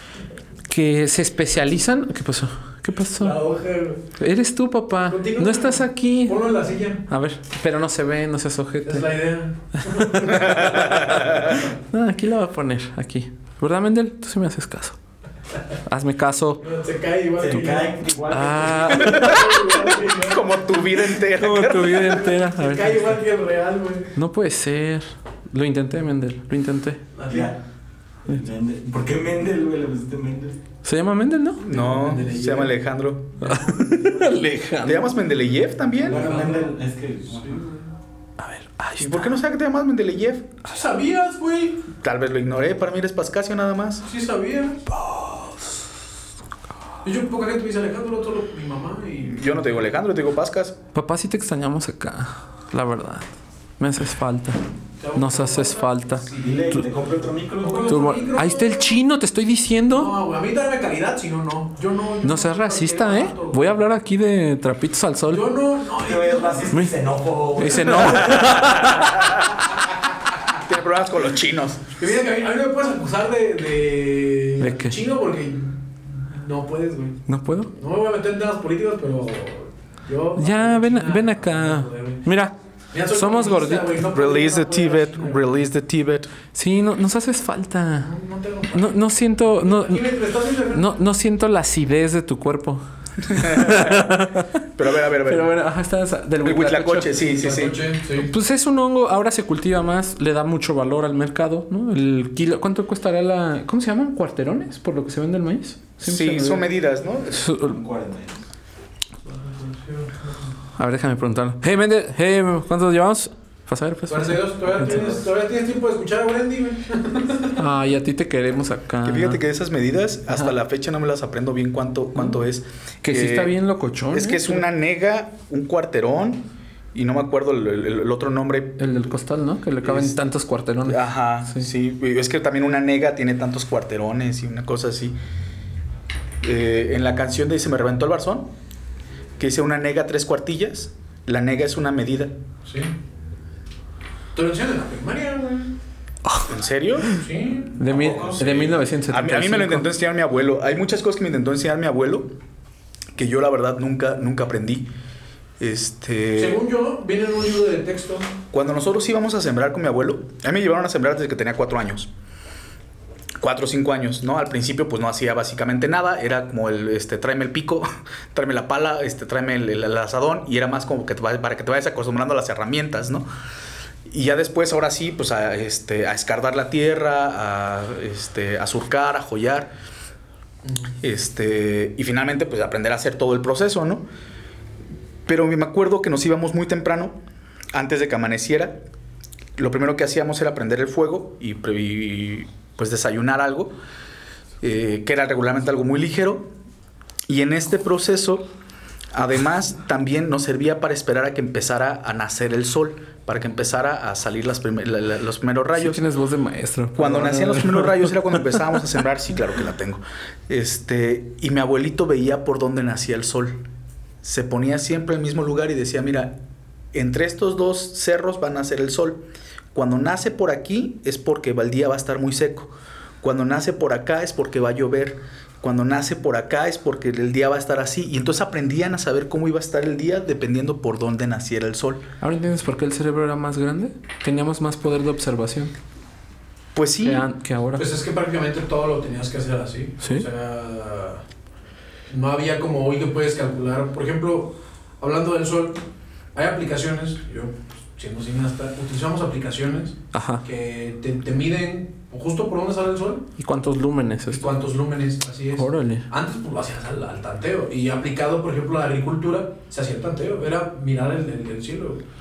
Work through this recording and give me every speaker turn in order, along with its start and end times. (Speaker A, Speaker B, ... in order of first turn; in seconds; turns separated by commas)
Speaker A: 0.7-3.4, Speaker B: 3.2-4.0, Speaker A: 4.2-6.5, Speaker B: 5.1-7.0, Speaker A: 7.1-9.1, Speaker B: 8.8-11.6, Speaker A: 9.8-15.0, Speaker C: 10.4-11.6, Speaker A: 15.9-16.6, Speaker B: 16.6-18.0, Speaker D: 17.4-19.4, Speaker A: 18.3-19.6, Speaker B: 18.9-20.6, Speaker C: 20.1-22.3, Speaker A: 21.2-23.2, Speaker B: 22.1-24.1, Speaker A: 24.2-27.0, Speaker B: 27.1-27.5, Speaker D: 27.3-27.6, Speaker D: 28.3-30.6, Speaker A: 30.8-31.6, Speaker C: 31.6-33.4, Speaker B: 31.7-32.8, Speaker B: 33.4-34.5, Speaker A: 33.4-35.1, Speaker C: 34.8-36.3, Speaker D: 36.0-37.7, Speaker B: 36.0-36.8, Speaker B: 37.3-37.9, Speaker A: 38.4-39.3, Speaker C: 39.0-40.5, Speaker B: 40.7-41.8, Speaker C: 42.0-44.0, Speaker B: 44.0-44.9, Speaker A: 44.9-45.8, Speaker B: 47.0-49.8, Speaker C: 49.3-50.8, Speaker A: 50.9-56.3, Speaker B: 55.0-56.9, Speaker D: 56.4-58.2, Speaker B: 57.6-59.0, Speaker A: 57.9-60.1, Speaker B: 59.9-63.8, Speaker A: 62.2-65.5, Speaker B: 65.3-66.8, Speaker D: 66.0-68.8, Speaker A: 67.5-69.2, Speaker C: 67.9-69.5, Speaker B: 68.2-68.6, Speaker B: 69.9-70.5, Speaker C: 70.5-71.9, Speaker B: 72.0-77.2, Speaker A: 74.6-75.0, Speaker A: 77.3-77.7, Speaker B: 77.7-82.2, Speaker A: 80.4-82.5, Speaker B: 82.9-85.5, Speaker A: 83.1-84.0, Speaker C: 84.1-86.3, Speaker A: 86.5-88.1, Speaker B: 88.0-91.0, Speaker A: 88.7-90.2, Speaker A: 90.7-94.6, Speaker C: 93.3-94.1, Speaker C: 94.8-95.5, Speaker A: 95.2-97.2, Speaker C: 96.4-97.8, Speaker B: 97.3-98.3, Speaker A: 98.2-106.7, Speaker C: 106.0-107.5, Speaker A: 107.3-107.8, Speaker D: 107.6-108.4, Speaker B: 109.3-110.5, Speaker A: 110.8-115.1, Speaker B: 114.1-117.6, Speaker A: 117.6-119.4, Speaker C: 119.0-123.6, Speaker A: 123.0-124.6, Speaker C: 124.1-128.8, Speaker A: 128.8-131.7, Speaker C: 129.8-130.2, Speaker C: 130.8-135.2, Speaker C: 136.4-138.5, Speaker C: 139.4-142.3, Speaker B: 142.7-142.9, Speaker B: 144.3-145.7, Speaker C: 146.5-147.1, Speaker B: 147.1-147.8, Speaker A: 147.8-149.9, Speaker D: 147.8-148.8, Speaker C: 149.1-152.3, Speaker C: 153.2-154.9, Speaker C: 155.6-156.6, Speaker B: 156.4-158.3, Speaker C: 158.5-162.1, Speaker C: 163.4-173.3, Speaker C: 174.1-179.7, Speaker B: 180.7-180.9, Speaker C: 181.0-184.1, Speaker C: 185.3-187.2, Speaker C: 187.7-188.8, Speaker C: 189.6-193.7, Speaker C: 194.6-196.5, Speaker C: 197.3-198.5, Speaker C: 199.1-206.0, Speaker A: 205.8-208.6, Speaker C: 206.9-213.6, Speaker C: 214.2-216.4, Speaker C: 216.9-219.2, Speaker C: 219.7-232.0, Speaker A: 232.2-235.7, Speaker C: 236.8-237.2, Speaker A: 237.0-237.9, Speaker B: 237.8-241.2, Speaker A: 240.0-240.3, Speaker B: 242.1-245.8, Speaker B: 246.3-253.2, Speaker A: 250.1-250.4, Speaker A: 253.4-254.6, Speaker B: 254.3-262.0, Speaker A: 255.6-256.1